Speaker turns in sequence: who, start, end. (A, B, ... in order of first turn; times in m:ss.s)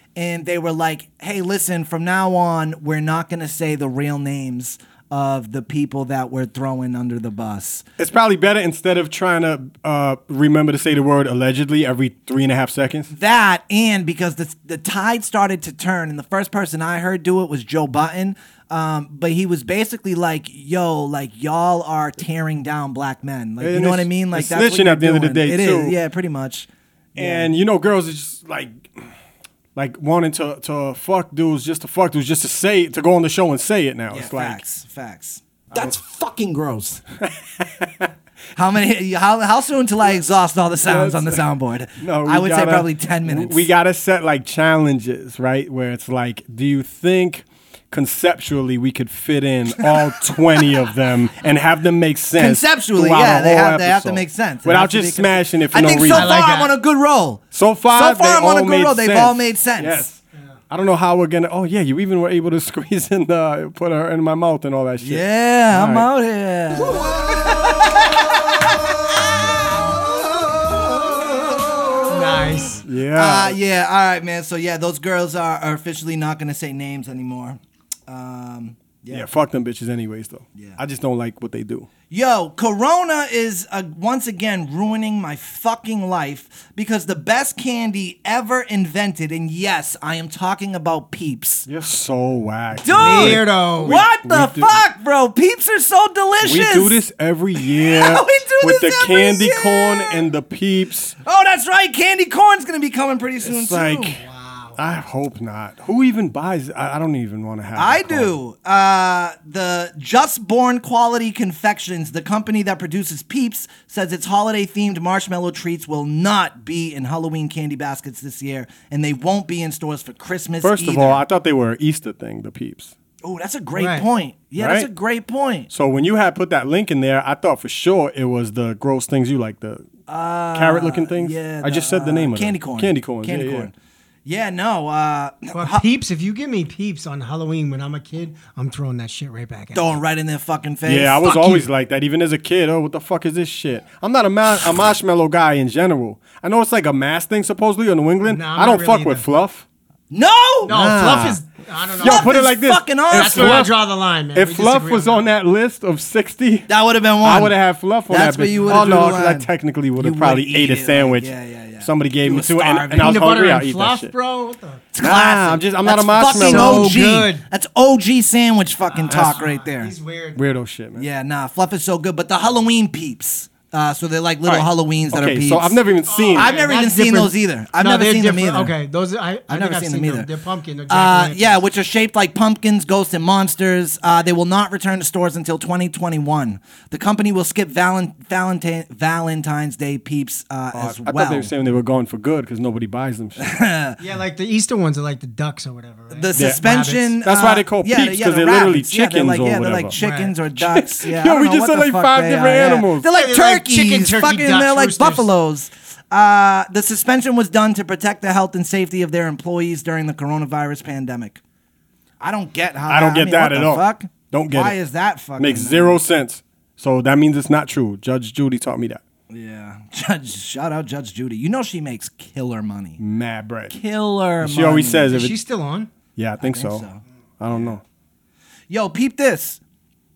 0:00.2-0:07.8 A
0:08.0-0:13.1 B
0:13.1-0:27.5 A
0:23.6-0:26.0 B
0:27.2-0:29.0 B
0:29.8-0:34.6 B
0:34.1-0:37.0 A
0:37.3-0:38.1 B
0:38.6-0:43.7 A
0:40.9-0:41.4 B
0:42.0-0:56.4 B
0:52.4-1:00.1 A
0:56.1-0:56.7 C
0:57.5-1:06.1 B
1:05.0-1:08.2 A
1:10.7-1:19.3 A
1:12.1-1:12.8 C
1:12.8-1:13.6 B
1:19.1-1:21.9 B
1:22.1-1:31.7 A
1:31.7-1:34.8 B
1:32.8-1:37.0 A
1:32.9-1:34.0 C
1:36.4-1:41.2 B
1:37.6-1:40.2 A
1:41.2-1:44.2 A
1:43.4-1:44.2 B
1:44.2-1:44.8 C
1:44.8-1:48.3 B
1:47.8-2:01.2 A
2:00.6-2:02.9 B
2:03.2-2:05.7 A
2:03.8-2:04.1 C
2:04.6-2:04.9 B
2:05.7-2:09.9 B
2:10.1-2:13.7 A
2:10.6-2:13.7 B
2:14.2-2:15.8 A
2:15.5-2:20.0 C
2:19.7-2:21.6 A
2:20.9-2:29.6 B
2:28.3-2:29.2 C
2:30.1-2:30.8 A
2:30.7-2:32.4 C
2:30.7-2:31.4 B
2:32.0-2:33.8 B
2:32.0-2:33.7 A
2:33.1-2:35.3 C
2:34.3-2:36.7 B
2:36.7-2:43.3 A
2:37.2-2:44.1 B
2:38.5-2:39.2 C
2:43.0-2:44.9 C
2:44.9-2:49.9 A
2:45.0-2:47.0 B
2:46.2-2:47.4 C
2:48.9-2:50.4 C
2:49.1-2:49.4 B
2:50.4-2:51.1 B
2:51.0-2:55.8 A
2:54.4-2:56.5 B
2:56.1-3:01.6 C
2:56.3-2:58.7 A
2:59.5-3:00.3 A
3:00.9-3:11.5 A
3:10.7-3:13.4 B
3:13.4-3:14.0 A
3:14.0-3:17.2 C
3:16.1-3:31.4 A
3:16.4-3:16.7 B
3:17.2-3:20.0 B
3:20.0-3:20.4 C
3:20.6-3:23.1 B
3:23.1-3:25.3 C
3:32.2-3:36.0 A
3:32.9-3:34.8 B
3:35.4-3:39.0 B
3:39.3-3:43.0 A
3:43.0-3:43.7 B
3:43.7-3:45.2 A
3:44.4-3:45.4 B
3:45.1-3:45.9 C
3:46.2-3:46.9 B
3:46.4-3:47.8 A
3:47.4-3:47.8 B
3:48.7-3:49.6 A